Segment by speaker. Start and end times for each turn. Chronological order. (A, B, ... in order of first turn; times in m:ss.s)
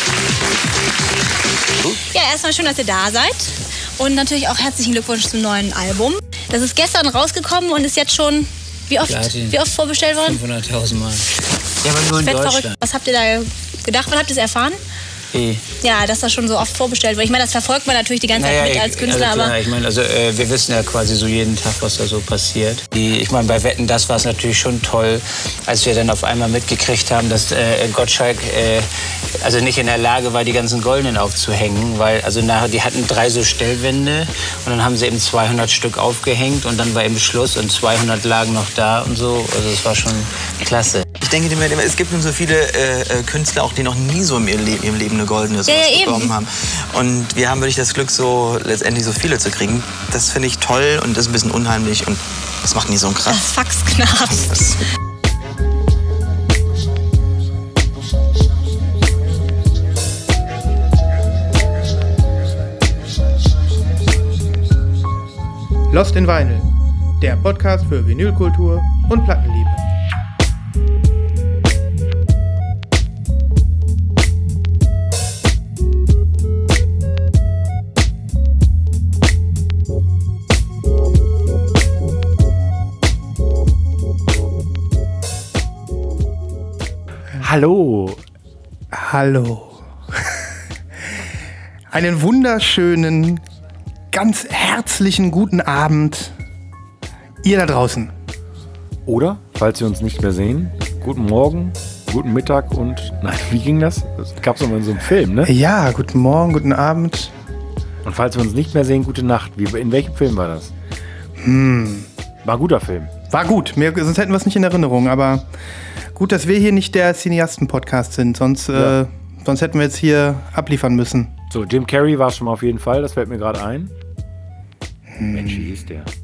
0:01.9-0:10.4 A
0:09.0-0:09.6 B
0:10.2-0:12.7 B
0:12.1-0:14.8 A
0:15.3-0:15.6 B
0:15.8-0:19.6 A
0:18.3-0:28.9 B
0:29.4-0:41.1 B
0:41.2-0:53.5 C
0:45.6-0:46.3 A
0:53.3-0:54.6 A
0:54.3-0:54.8 C
1:05.9-1:06.7 D
1:07.2-1:09.8 D
1:27.4-1:28.2 E
1:28.9-1:30.5 D
1:31.9-1:33.4 D
1:34.1-1:36.4 D
1:37.4-1:38.1 D
1:39.0-1:45.5 E
1:45.4-1:47.3 D
1:48.0-1:50.7 E
1:51.4-1:52.1 D
1:52.4-1:53.1 E
1:53.3-1:55.5 D
1:56.1-2:01.3 D
2:01.5-2:03.9 E
2:05.2-2:05.7 D
2:05.3-2:06.1 E